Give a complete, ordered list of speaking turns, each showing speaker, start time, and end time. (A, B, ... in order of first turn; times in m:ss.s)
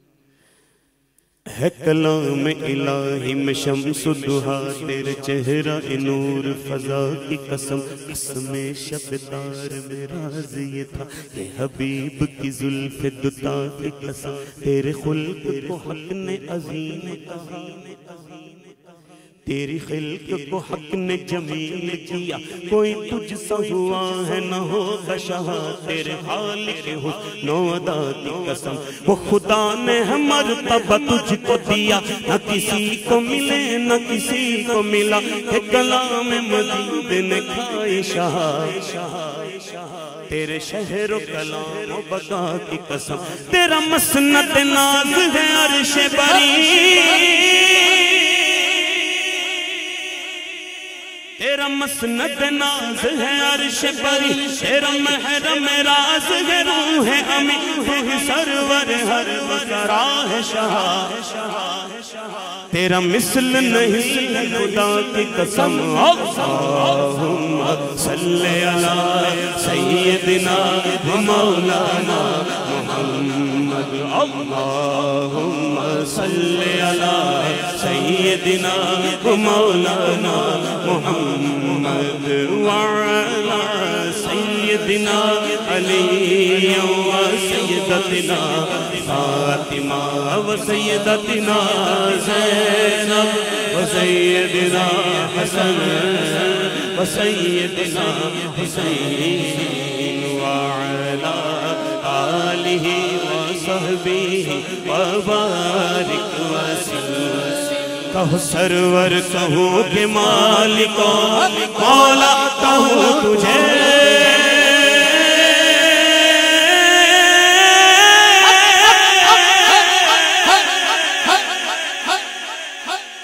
0:01.5-0:18.2 A
0:19.4-0:49.3 A
0:51.3-2:01.6 A